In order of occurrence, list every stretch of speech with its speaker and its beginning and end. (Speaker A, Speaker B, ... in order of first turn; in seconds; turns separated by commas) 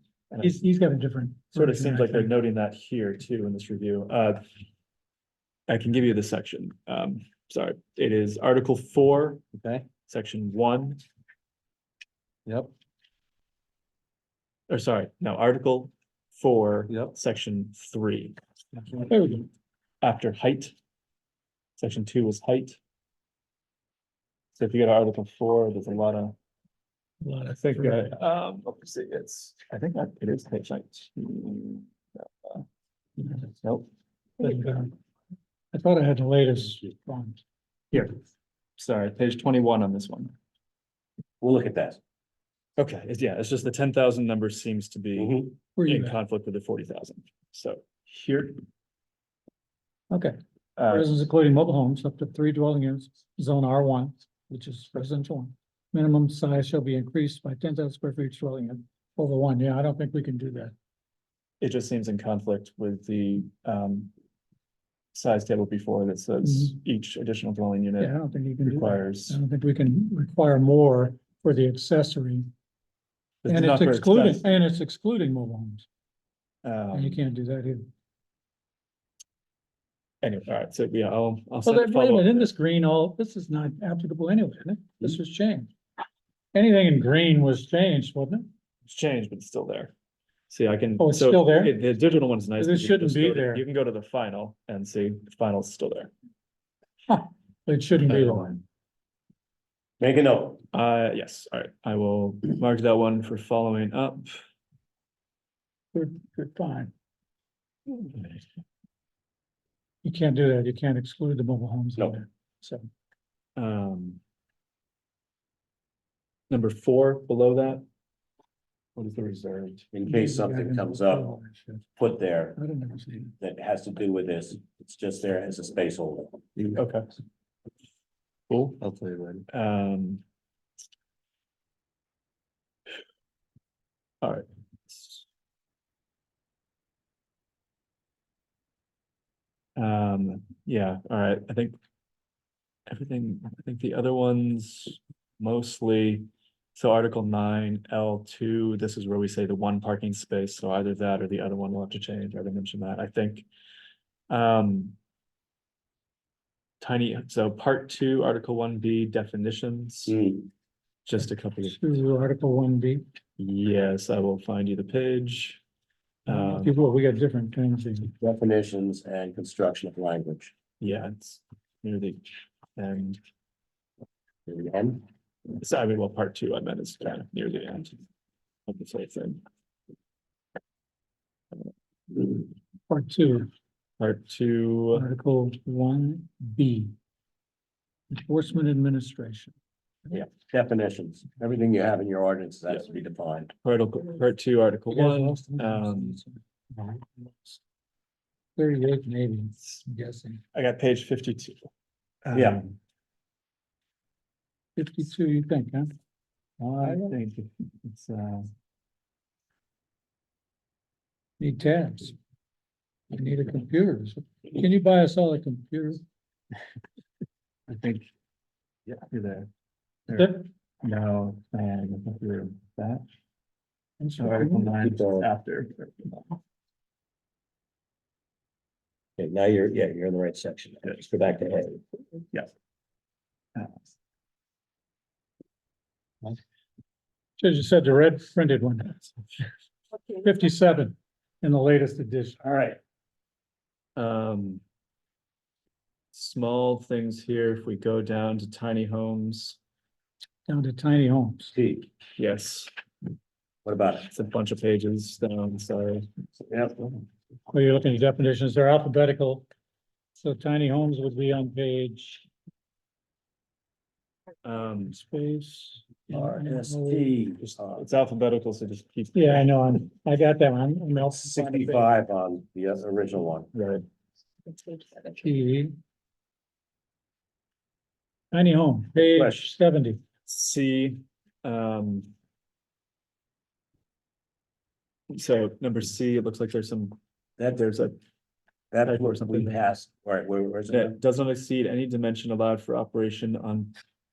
Speaker A: 0.3-0.6, Speaker B: 0.4-2.3, Speaker A: 1.5-4.4, Speaker A: 5.7-9.4, Speaker C: 9.6-9.8, Speaker A: 10.1-11.0, Speaker A: 14.7-18.4, Speaker B: 19.0-19.5, Speaker A: 20.0-20.7, Speaker A: 21.8-22.8, Speaker A: 24.6-26.3, Speaker B: 27.2-28.1, Speaker A: 27.6-32.6, Speaker A: 33.6-33.9, Speaker B: 34.4-35.0, Speaker B: 35.7-37.4, Speaker A: 38.8-40.3, Speaker C: 41.4-42.0, Speaker A: 42.8-48.6, Speaker C: 45.2-45.5, Speaker B: 45.8-46.2, Speaker B: 50.1-50.4, Speaker A: 50.8-51.1, Speaker B: 50.9-60.7, Speaker A: 61.6-64.1, Speaker A: 65.1-69.4, Speaker B: 66.4-66.7, Speaker B: 68.0-72.5, Speaker A: 73.4-74.4, Speaker B: 73.5-75.9, Speaker A: 76.6-77.2, Speaker B: 76.9-77.9, Speaker A: 80.2-82.4, Speaker B: 81.6-85.7, Speaker B: 86.5-88.5, Speaker A: 88.9-89.9, Speaker A: 90.5-96.1, Speaker B: 91.0-91.8, Speaker B: 92.6-93.6, Speaker B: 97.1-98.5, Speaker A: 98.2-98.6, Speaker C: 100.0-100.6, Speaker A: 100.7-104.3, Speaker B: 105.9-106.9, Speaker A: 107.9-108.4, Speaker B: 110.0-112.9, Speaker A: 113.5-114.2, Speaker A: 116.5-117.8, Speaker A: 119.0-119.9, Speaker C: 119.9-121.4, Speaker B: 120.0-121.8, Speaker C: 122.0-122.6, Speaker B: 122.5-123.3, Speaker C: 123.4-126.6, Speaker A: 126.6-127.1, Speaker A: 128.5-128.8, Speaker C: 128.8-129.4, Speaker A: 129.5-130.2, Speaker A: 134.2-135.2, Speaker A: 139.8-141.8, Speaker A: 142.9-153.5, Speaker A: 154.3-155.0, Speaker A: 156.8-160.2, Speaker C: 160.1-160.5, Speaker A: 161.1-162.0, Speaker B: 161.6-163.0, Speaker A: 163.4-165.6, Speaker A: 166.2-166.8, Speaker B: 166.3-168.1, Speaker C: 168.1-170.5, Speaker A: 170.8-173.2, Speaker C: 174.5-175.0, Speaker A: 175.6-178.0, Speaker A: 178.7-179.4, Speaker B: 182.9-183.5, Speaker A: 184.0-185.1, Speaker B: 184.9-186.9, Speaker B: 188.1-189.5, Speaker C: 190.1-193.5, Speaker A: 193.6-196.2, Speaker B: 194.9-197.6, Speaker B: 198.6-200.4, Speaker A: 200.5-201.7, Speaker A: 202.2-202.7, Speaker C: 202.3-202.6, Speaker B: 204.8-205.9, Speaker A: 206.6-208.5, Speaker B: 206.8-207.2, Speaker B: 211.4-212.2, Speaker B: 213.1-216.0, Speaker A: 217.7-218.1, Speaker A: 218.9-219.5, Speaker A: 220.1-223.0, Speaker B: 220.1-220.4, Speaker B: 224.0-224.8, Speaker A: 224.2-226.3, Speaker C: 224.8-225.3, Speaker C: 229.2-231.8, Speaker B: 237.4-239.1, Speaker B: 240.1-242.4, Speaker C: 242.4-242.8, Speaker A: 244.0-244.6, Speaker A: 246.1-249.6, Speaker B: 250.5-251.5, Speaker C: 251.5-251.9, Speaker A: 252.2-252.7, Speaker C: 253.7-254.1, Speaker A: 254.1-256.1, Speaker C: 256.4-257.0, Speaker B: 257.5-259.5, Speaker B: 260.2-262.3, Speaker A: 264.4-264.9, Speaker B: 264.8-267.1, Speaker C: 266.1-267.9, Speaker A: 267.4-269.6, Speaker B: 269.1-271.9, Speaker C: 271.1-273.5, Speaker A: 273.5-273.8, Speaker B: 275.0-275.8, Speaker B: 278.3-280.0, Speaker C: 279.0-279.5, Speaker A: 280.3-282.1, Speaker A: 285.1-287.0, Speaker C: 287.4-287.7, Speaker A: 287.5-288.0, Speaker C: 288.7-291.0, Speaker A: 288.8-289.6, Speaker A: 290.7-293.7